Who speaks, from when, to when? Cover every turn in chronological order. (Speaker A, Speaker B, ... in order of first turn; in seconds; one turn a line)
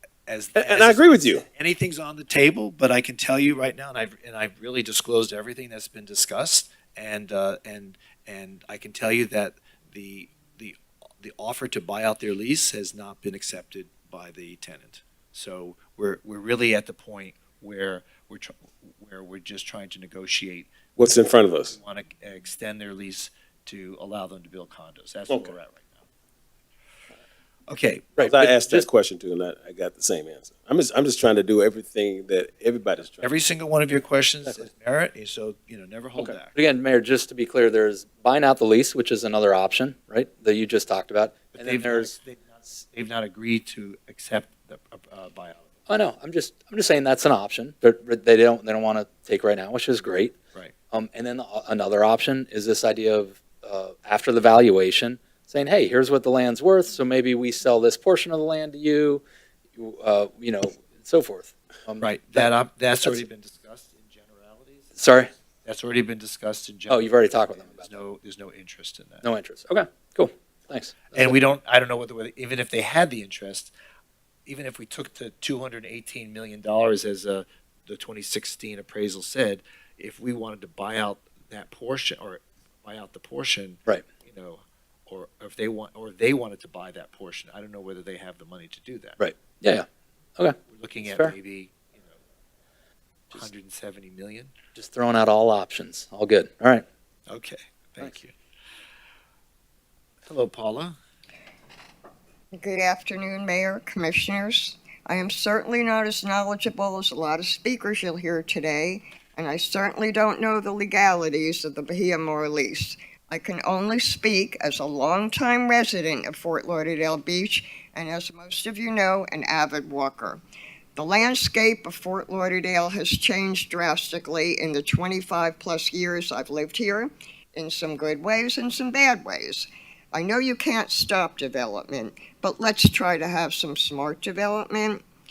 Speaker A: 0.3-20.8
Speaker B: 0.6-1.4
Speaker B: 21.0-21.7
Speaker A: 21.7-26.0
Speaker A: 27.7-28.2
Speaker C: 28.2-28.9
Speaker B: 28.2-33.3
Speaker A: 33.2-36.5
Speaker C: 36.2-42.1
Speaker A: 41.5-45.7
Speaker C: 45.9-50.4
Speaker C: 50.9-59.2
Speaker C: 59.8-62.5
Speaker A: 62.0-65.0
Speaker C: 65.0-65.3
Speaker A: 65.7-69.3
Speaker C: 66.9-68.0
Speaker C: 69.2-71.4
Speaker A: 71.1-73.7
Speaker A: 74.5-89.2
Speaker C: 89.2-89.9
Speaker C: 90.4-91.3
Speaker A: 90.7-92.2
Speaker A: 93.3-94.5
Speaker C: 94.8-96.8
Speaker A: 97.3-98.3
Speaker A: 100.3-101.0
Speaker D: 102.5-120.4
Speaker D: 121.0-135.0